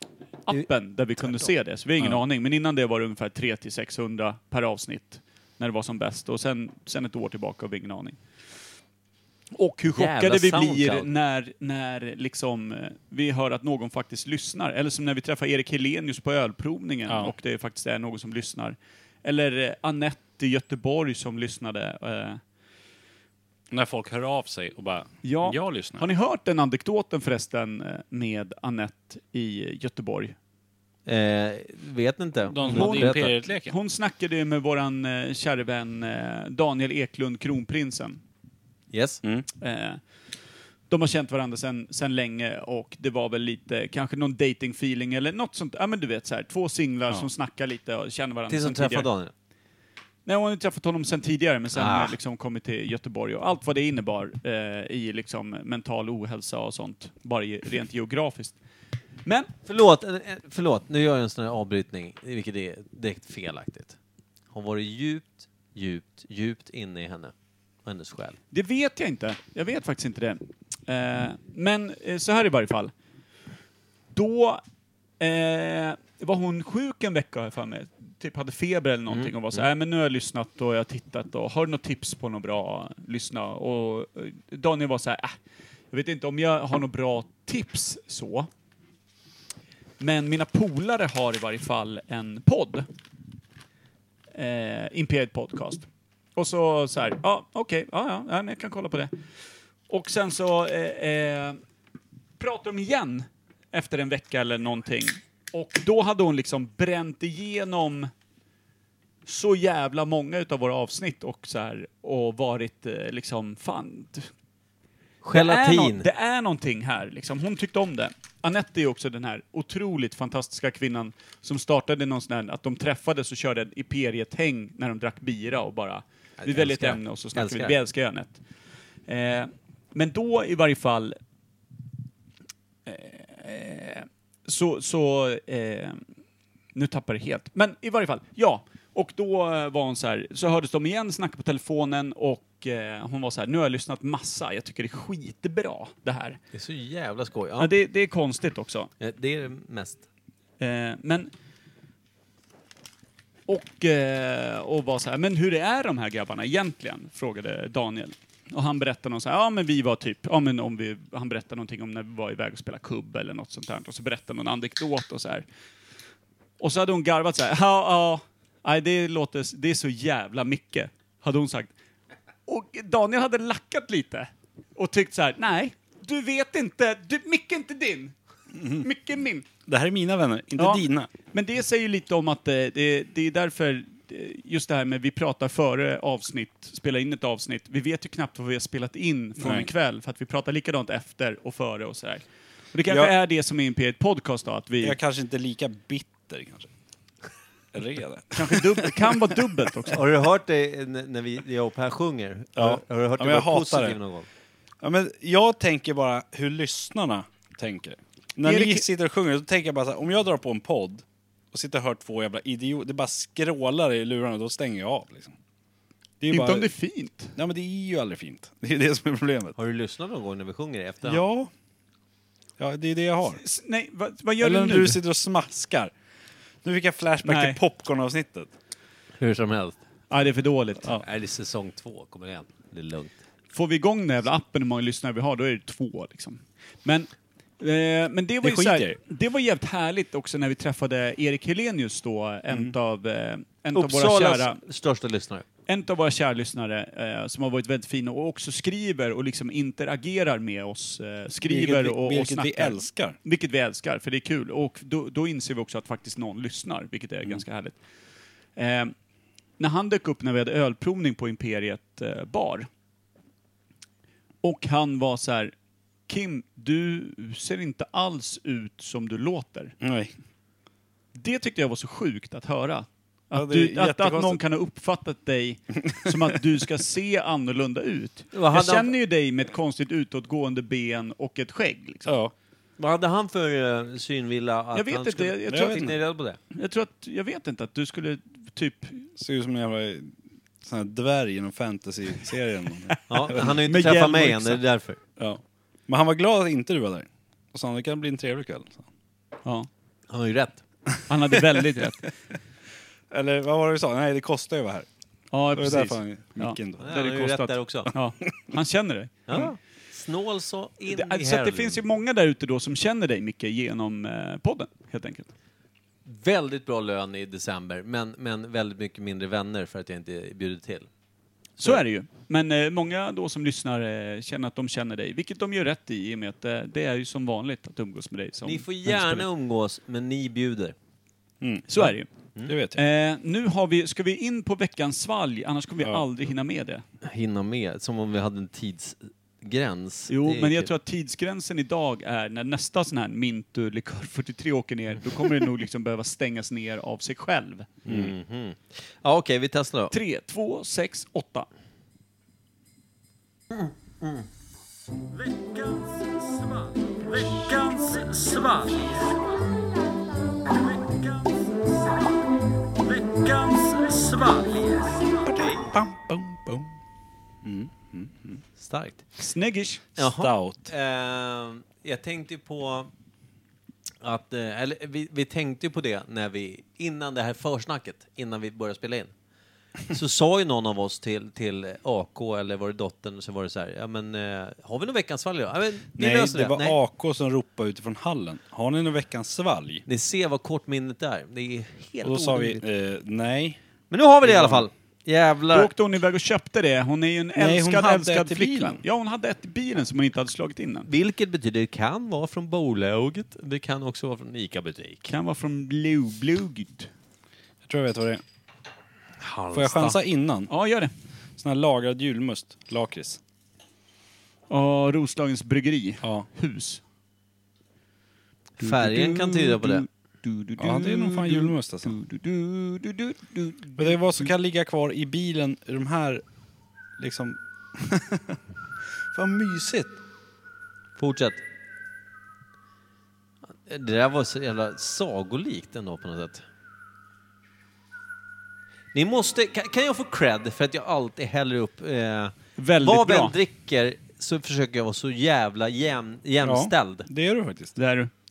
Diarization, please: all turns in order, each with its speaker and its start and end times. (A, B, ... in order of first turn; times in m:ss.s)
0:00.4-0:08.2 A
0:01.2-0:01.5 B
0:09.5-0:22.4 A
0:09.9-0:11.1 B
0:17.1-0:17.3 C
0:23.7-0:26.0 C
0:25.2-0:30.3 A
0:31.0-0:33.3 B
0:32.5-0:33.7 C
0:32.6-0:38.2 A
0:38.9-0:39.2 B
0:39.6-0:40.0 A
0:40.9-0:49.1 A
0:48.5-0:49.3 B
0:50.2-0:58.6 A
0:51.7-0:52.1 B
0:59.2-0:59.5 A
0:59.6-1:04.0 B
1:04.5-1:07.3 B
1:07.8-1:08.4 B
1:08.5-1:12.9 A
1:14.1-1:14.6 A
1:15.2-1:25.4 A
1:19.1-1:19.6 B
1:25.9-1:28.5 A
1:30.0-1:32.9 A
1:34.3-1:39.1 A
1:39.9-1:41.6 A
1:42.4-1:48.1 A
1:49.2-1:54.3 A
1:55.2-1:56.1 B
1:55.3-2:08.4 A
2:06.4-2:07.8 B
2:09.1-2:11.2 A
2:12.8-2:16.0 A
2:16.7-2:26.4 A
2:26.5-2:27.7 B
2:27.6-2:28.9 A
2:29.0-2:30.0 B
2:30.6-2:31.3 A
2:33.5-2:45.4 A
2:46.6-2:51.7 A
2:52.5-2:59.4 A
2:58.5-2:58.8 C
2:59.7-3:01.1 C
3:00.6-3:15.0 A
3:09.4-3:09.7 C
3:12.9-3:13.1 C
3:14.8-3:16.7 C
3:17.7-3:19.4 C
3:18.3-3:20.0 A
3:19.9-3:24.3 B
3:22.6-3:24.0 C
3:24.8-3:35.3 C
3:28.4-3:28.8 A
3:36.2-3:36.7 C
3:36.3-3:37.3 A
3:37.3-3:39.6 C
3:39.6-3:41.2 B
3:41.0-3:41.5 C
3:42.6-3:43.4 C
3:43.3-3:45.0 A
3:44.4-3:45.9 C
3:46.6-3:48.5 C
3:47.2-3:47.6 A
3:49.2-3:49.8 B
3:50.1-3:51.0 A
3:51.0-3:53.1 B
3:53.5-4:04.6 A
3:58.4-3:59.0 C
4:03.7-4:05.4 B
4:05.7-4:17.8 A
4:11.4-4:13.2 C
4:18.6-4:18.9 A
4:19.6-4:22.7 A
4:24.4-4:25.5 A
4:26.1-4:29.7 A
4:29.8-4:30.1 C
4:31.1-4:42.1 A
4:33.3-4:34.4 C
4:38.3-4:38.9 B
4:42.0-4:42.3 C
4:42.8-4:46.4 B
4:44.7-4:45.9 A
4:45.5-4:45.9 C
4:46.5-4:49.1 A
4:49.2-4:53.4 C
4:52.9-4:54.6 A
4:53.1-4:55.0 B
4:55.2-4:58.9 C
5:00.1-5:00.6 B
5:01.1-5:02.1 A
5:03.1-5:04.9 C
5:05.3-5:09.5 A
5:05.5-5:07.0 C
5:06.8-5:07.9 B
5:09.3-5:11.8 B
5:10.9-5:15.3 A
5:16.0-5:20.9 B
5:21.6-5:29.2 A
5:28.4-5:30.7 B
5:31.4-5:31.9 C
5:31.7-5:32.1 A
5:32.5-5:32.8 C
5:32.7-5:36.8 A
5:37.0-5:40.7 B
5:40.1-5:47.7 A
5:47.8-5:49.9 B
5:49.9-5:51.5 A
5:53.5-5:54.2 B
5:57.3-5:58.0 A
5:58.1-5:58.7 B
6:03.4-6:04.6 B
6:05.0-6:06.7 C
6:07.4-6:08.4 C
6:08.6-6:09.0 B
6:09.2-6:09.9 A
6:10.0-6:12.9 B
6:10.0-6:10.7 C
6:14.0-6:19.1 B
6:19.9-6:26.8 B
6:25.9-6:29.8 C
6:29.9-6:32.6 B
6:32.0-6:33.6 C
6:33.9-6:35.7 B
6:34.2-6:34.7 C
6:35.5-6:40.9 A
6:37.4-6:38.8 C
6:40.9-6:45.1 B
6:45.1-6:46.9 A
6:47.6-6:48.2 C
6:49.2-6:50.0 B
6:49.5-6:50.5 C
6:50.5-6:50.9 A
6:51.4-6:53.2 C
6:54.5-6:56.8 A
6:56.0-6:56.3 C
6:58.6-6:59.8 B
6:58.6-7:04.3 A
7:00.6-7:02.0 C
7:03.8-7:06.2 C
7:07.0-7:08.4 C
7:09.1-7:10.0 C
7:11.0-7:11.4 B
7:13.6-7:16.4 B
7:18.9-7:27.1 B
7:22.6-7:23.3 A
7:26.4-7:27.7 C
7:27.8-7:28.1 A